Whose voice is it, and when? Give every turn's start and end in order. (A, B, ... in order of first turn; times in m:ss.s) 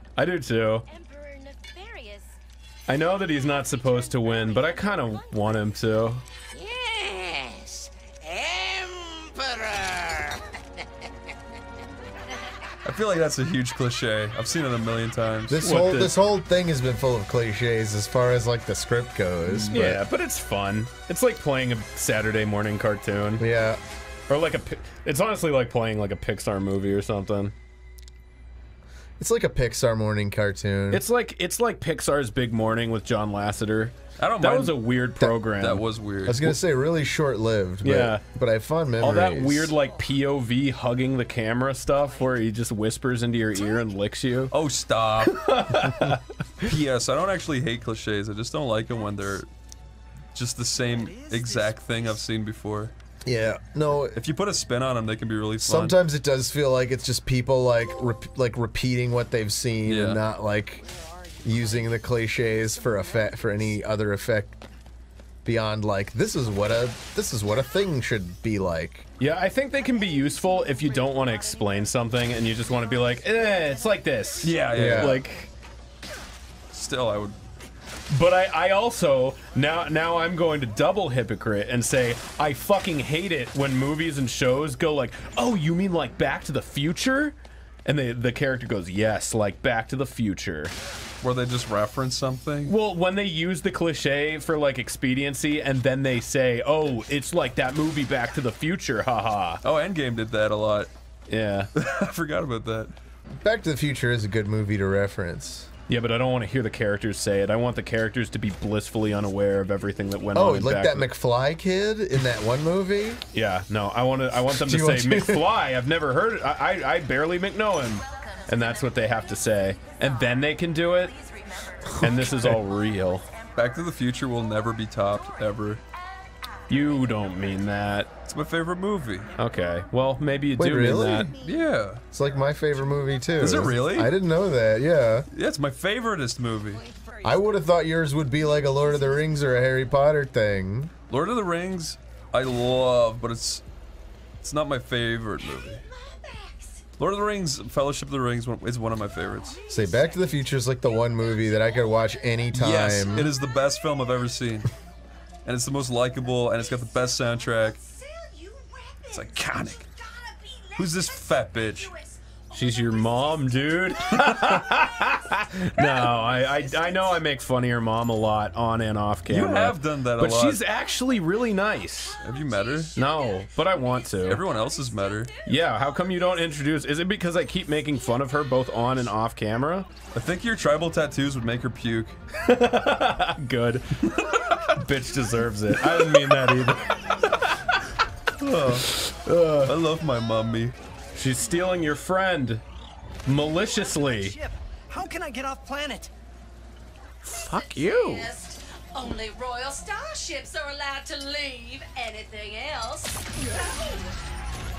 0:00.2-0:00.9 A
0:00.9-0:02.4 B
0:02.9-0:06.2 A
0:04.2-0:05.1 B
0:07.2-0:07.6 B
0:12.8-0:15.6 C
0:15.5-0:20.0 D
0:15.6-0:16.2 A
0:19.7-0:23.4 A
0:23.4-0:23.8 D
0:24.3-0:27.5 A
0:29.2-0:31.0 D
0:30.9-0:35.8 A
0:34.2-0:34.8 C
0:35.6-0:36.6 C
0:36.2-0:39.8 D
0:37.8-0:38.2 A
0:39.0-0:44.5 A
0:39.8-0:40.1 E
0:42.1-0:42.4 E
0:44.5-0:49.5 C
0:45.3-0:46.7 A
0:50.3-0:52.9 C
0:50.8-0:52.2 E
0:53.2-0:54.2 D
0:54.2-0:56.0 C
0:55.6-1:00.8 D
0:59.9-1:00.2 C
1:00.8-1:02.0 E
1:01.4-1:04.6 D
1:02.5-1:03.8 E
1:05.4-1:09.1 D
1:09.2-1:15.5 A
1:14.4-1:15.2 C
1:14.7-1:15.2 D
1:16.7-1:17.4 C
1:18.1-1:27.4 A
1:27.9-1:30.8 A
1:31.2-1:32.8 C
1:32.7-1:39.6 A
1:39.6-1:40.9 C
1:41.3-1:41.7 A
1:41.8-1:42.9 C
1:43.4-1:45.7 D
1:45.9-1:51.1 A
1:50.3-1:53.2 D
1:53.3-2:01.2 A
1:54.5-1:55.5 D
1:58.1-2:00.5 B
2:01.2-2:02.6 B
2:02.0-2:03.3 A
2:02.0-2:02.3 D
2:03.6-2:05.8 C
2:05.2-2:05.6 B
2:06.7-2:08.1 A
2:06.9-2:07.4 B
2:08.3-2:09.3 C
2:09.4-2:11.3 A
2:10.6-2:11.3 D
2:11.4-2:12.0 C
2:12.1-2:15.3 D
2:13.4-2:14.1 C
2:15.3-2:16.8 C
2:16.7-2:19.5 E
2:17.2-2:20.9 D
2:21.1-2:23.6 C
2:24.4-2:25.8 C
2:25.4-2:26.9 B
2:27.0-2:29.6 C
2:29.4-2:32.2 B
2:29.7-2:33.3 D
2:32.5-2:34.7 C
2:35.4-2:37.8 C
2:36.6-2:43.9 B
2:39.1-2:39.9 C
2:40.8-2:41.9 C
2:42.5-2:52.2 A
2:44.5-2:45.1 B
2:45.8-2:47.4 B
2:49.3-2:50.6 C
2:52.1-2:56.6 B
2:52.2-2:53.0 C
2:53.0-2:54.4 A
2:54.2-2:55.3 C
2:55.5-2:59.9 A
2:57.9-2:59.1 B
3:00.1-3:02.2 C
3:02.4-3:04.0 A
3:04.0-3:04.6 C
3:04.6-3:07.8 A
3:05.9-3:06.4 C
3:08.4-3:09.0 C
3:08.8-3:09.7 A
3:09.6-3:10.8 C
3:11.2-3:12.6 A
3:13.3-3:14.4 A
3:14.1-3:16.1 E
3:17.2-3:18.3 A
3:17.2-3:24.2 B